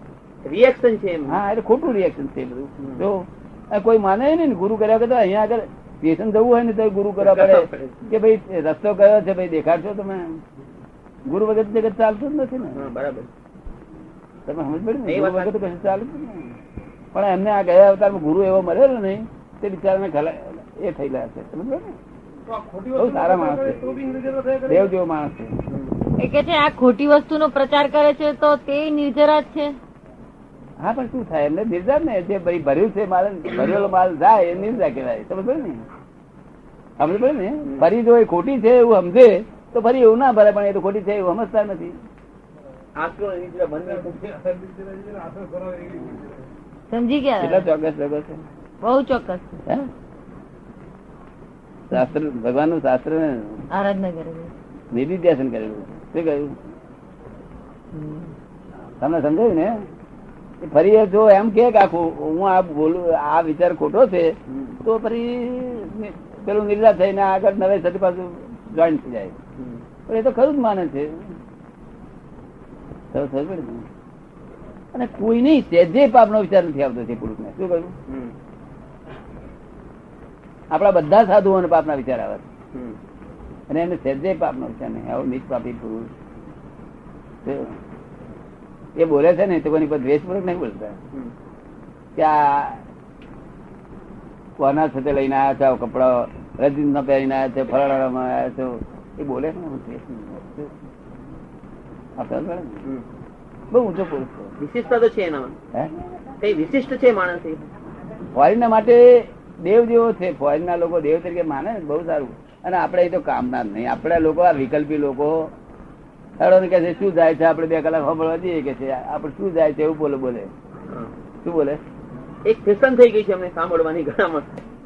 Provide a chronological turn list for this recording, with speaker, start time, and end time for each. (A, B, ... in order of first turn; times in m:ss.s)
0:00.4-0:01.4 A
0:01.3-0:10.4 B
0:02.8-0:03.0 A
0:07.2-0:08.0 A
0:11.3-0:12.8 B
0:12.7-0:13.3 A
0:14.5-0:16.6 B
0:15.1-0:15.7 A
0:17.1-0:22.0 B
0:22.5-0:24.9 C
0:23.0-0:23.8 B
0:24.7-0:25.5 B
0:25.7-0:26.0 A
0:26.2-0:29.7 D
0:30.8-0:35.8 B
0:37.0-0:42.0 B
0:37.6-0:37.9 A
0:43.0-0:44.2 A
0:43.9-0:46.5 C
0:46.9-0:47.6 D
0:47.4-0:48.4 B
0:48.8-0:49.6 D
0:51.9-0:53.6 B
0:53.7-0:54.5 D
0:54.9-0:56.6 B
0:57.9-0:58.3 D
0:59.0-0:59.8 B
1:00.6-1:09.4 B
1:04.5-1:04.8 A
1:09.6-1:09.8 A
1:10.1-1:11.3 B
1:13.1-1:13.9 B
1:14.9-1:17.9 B
1:18.1-1:18.3 A
1:20.7-1:22.5 B
1:22.7-1:23.0 A
1:23.7-1:26.1 B
1:27.4-1:27.8 B
1:29.0-1:31.0 B
1:32.2-1:32.8 B
1:34.6-1:40.7 B
1:42.2-1:42.8 B
1:43.7-1:44.5 B
1:44.6-1:45.6 A
1:46.4-1:47.7 A
1:48.3-1:55.5 B
1:56.4-2:00.5 B
2:01.4-2:01.8 B
2:02.4-2:04.5 A